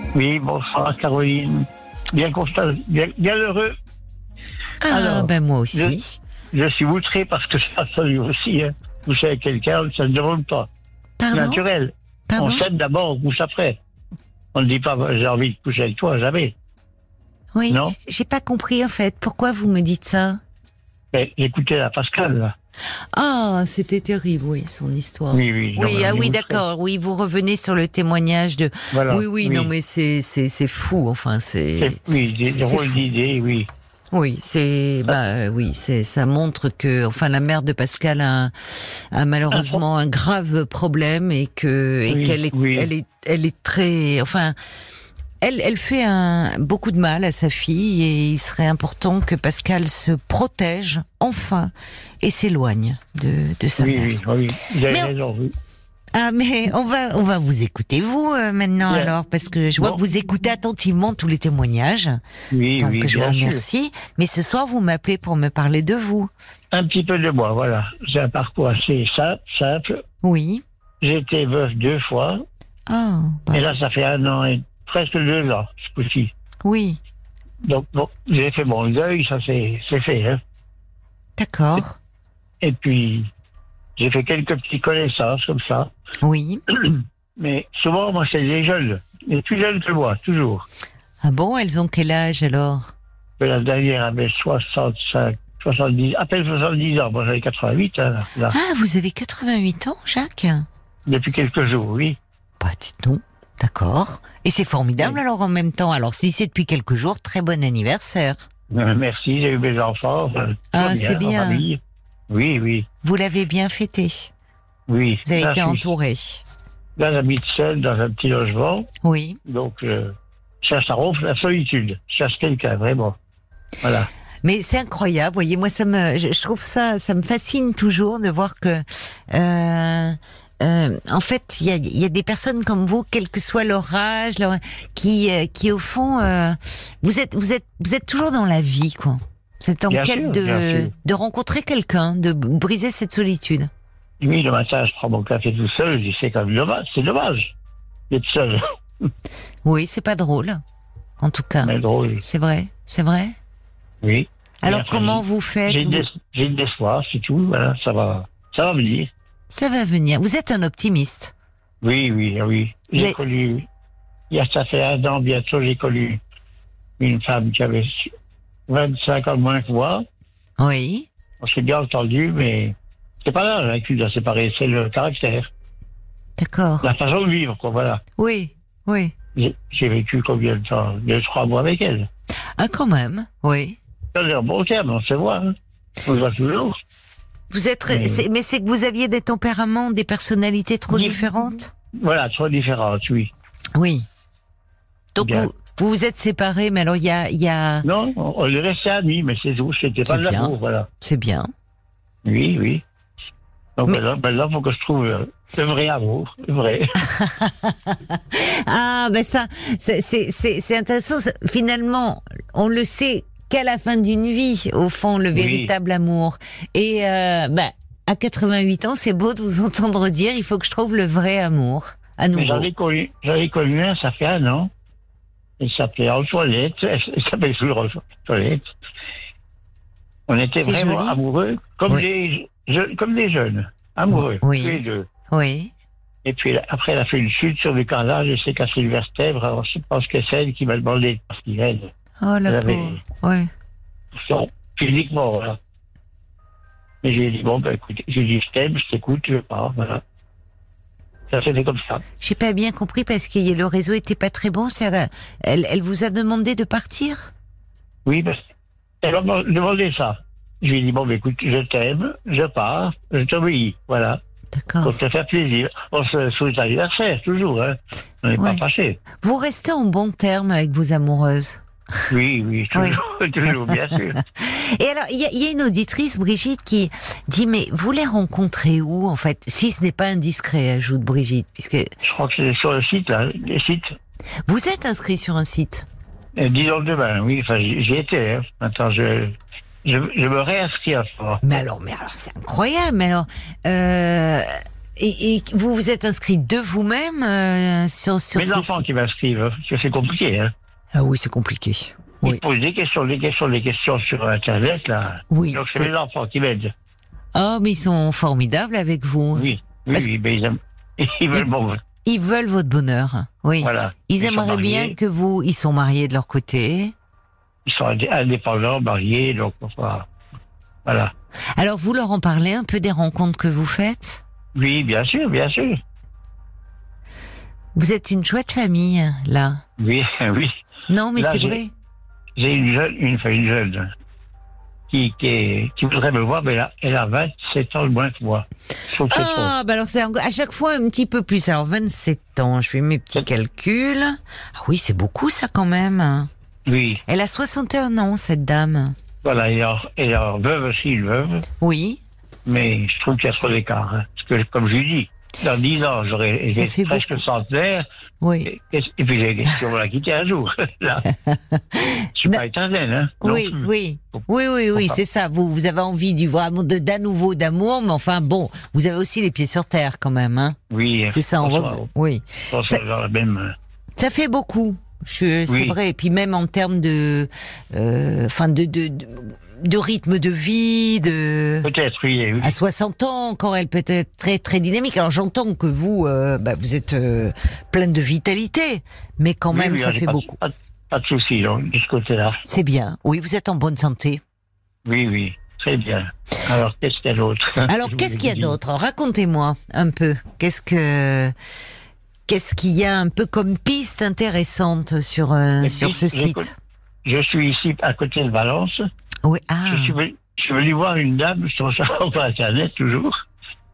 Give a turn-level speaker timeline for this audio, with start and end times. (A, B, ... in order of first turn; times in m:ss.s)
0:00.1-0:03.7 A
0:04.8-0:06.2 B
0:04.9-0:06.0 A
0:06.5-0:10.7 A
0:11.2-0:11.6 B
0:11.3-0:13.8 A
0:12.3-0:12.7 B
0:14.5-0:16.6 A
0:17.5-0:20.4 B
0:17.7-0:18.0 A
0:21.1-0:22.5 A
0:23.1-0:33.0 B
0:25.3-0:26.6 A
0:28.9-0:29.7 A
0:31.8-0:33.7 A
0:34.1-0:44.6 B
0:39.5-0:39.8 A
0:42.1-0:42.9 A
0:45.4-0:54.1 B
0:53.8-0:55.5 A
0:56.1-1:02.2 B
1:02.5-1:03.6 A
1:02.8-1:06.3 B
1:06.7-1:10.0 A
1:10.2-1:10.6 B
1:11.0-1:12.4 A
1:12.9-1:13.7 B
1:13.5-1:16.3 A
1:16.6-1:17.0 B
1:17.6-1:20.4 A
1:21.4-1:22.0 B
1:22.6-1:23.3 A
1:24.0-1:25.9 A
1:26.2-1:26.6 B
1:26.7-1:30.6 A
1:31.2-1:32.9 B
1:33.4-1:38.5 A
1:38.5-1:40.7 B
1:41.1-1:42.2 A
1:42.6-1:48.4 B
1:48.7-1:52.8 A
1:50.7-1:51.7 B
1:53.0-1:54.3 B
1:54.9-1:55.9 A
1:55.2-1:56.4 B
1:57.0-1:58.8 A
1:59.0-1:59.4 B
1:59.4-2:03.2 A
2:03.8-2:04.1 A
2:04.4-2:23.7 B
2:19.9-2:20.9 A
2:24.2-2:27.5 A
2:28.1-2:28.6 A
2:29.6-2:30.6 B
2:31.2-2:33.4 B
2:31.6-2:32.2 A
2:34.0-2:39.1 A
2:34.6-2:36.1 B
2:39.5-2:41.3 B
2:41.8-2:43.6 A
2:44.3-2:46.2 A
2:47.0-2:48.1 A
2:48.7-2:50.0 A
2:50.6-2:51.1 B
2:51.4-2:55.5 A
2:56.4-2:56.9 B
2:56.8-2:58.0 A
2:58.2-2:59.1 B
2:59.4-3:02.1 A
3:02.6-3:03.8 B
3:04.1-3:05.5 A
3:06.0-3:06.7 A
3:07.5-3:11.7 B
3:07.9-3:08.2 A
3:10.9-3:11.3 A
3:12.0-3:13.3 A
3:13.8-3:14.1 B
3:15.1-3:17.8 B
3:15.2-3:15.5 A
3:17.8-3:20.9 A
3:20.0-3:21.5 B
3:22.2-3:22.8 A
3:23.8-3:27.0 A
3:27.0-3:42.7 B
3:35.3-3:35.7 A
3:42.3-3:44.7 A
3:45.6-3:48.7 A
3:50.3-3:55.1 A
3:50.6-3:51.2 B
3:54.1-3:55.7 B
3:56.2-4:01.9 A
4:02.2-4:03.5 B
4:02.5-4:03.0 A
4:04.1-4:05.6 A
4:07.0-4:10.0 A
4:11.3-4:12.0 A
4:12.2-4:17.3 B
4:18.0-4:18.4 A
4:19.0-4:24.2 A
4:24.5-4:25.0 B
4:24.8-4:29.0 A
4:29.2-4:31.6 B
4:32.1-4:34.2 A
4:32.7-4:33.0 B
4:33.6-4:41.9 B
4:42.0-4:43.9 A
4:44.4-4:45.8 B
4:46.4-4:51.4 A
4:51.4-4:58.8 B
4:58.3-5:00.5 A
5:00.9-5:02.4 B
5:02.2-5:06.7 A
5:05.3-5:05.9 B
5:07.3-5:10.1 B
5:09.3-5:11.8 A
5:12.0-5:16.9 B
5:13.6-5:15.0 A
5:17.6-5:20.1 A
5:20.8-5:21.1 A
5:21.5-5:24.2 B
5:24.5-5:25.8 A
5:27.8-5:29.6 B
5:29.8-5:30.5 A
5:30.9-5:31.7 B
5:31.2-5:31.6 A
5:32.4-5:33.9 A
5:34.9-5:39.5 A
5:39.1-5:46.3 B
5:46.7-5:47.0 A
5:47.1-5:49.0 B
5:49.2-5:51.4 A
5:51.6-5:52.0 B
5:52.4-5:57.8 A
5:56.5-5:57.2 B
5:58.2-5:58.5 B
5:58.4-6:01.1 A
6:01.4-6:02.4 B
6:02.2-6:04.2 A
6:03.2-6:10.6 B
6:10.7-6:11.9 A
6:11.1-6:12.8 B
6:12.5-6:13.5 A
6:14.0-6:21.7 B
6:15.5-6:15.8 A
6:21.6-6:22.6 A
6:22.4-6:30.4 B
6:29.5-6:32.4 A
6:32.4-6:34.2 B
6:34.8-6:38.6 A
6:37.7-6:41.3 B
6:42.3-6:46.5 B
6:45.6-6:46.5 A
6:47.0-6:48.8 A
6:49.2-6:50.0 B
6:49.7-6:53.1 A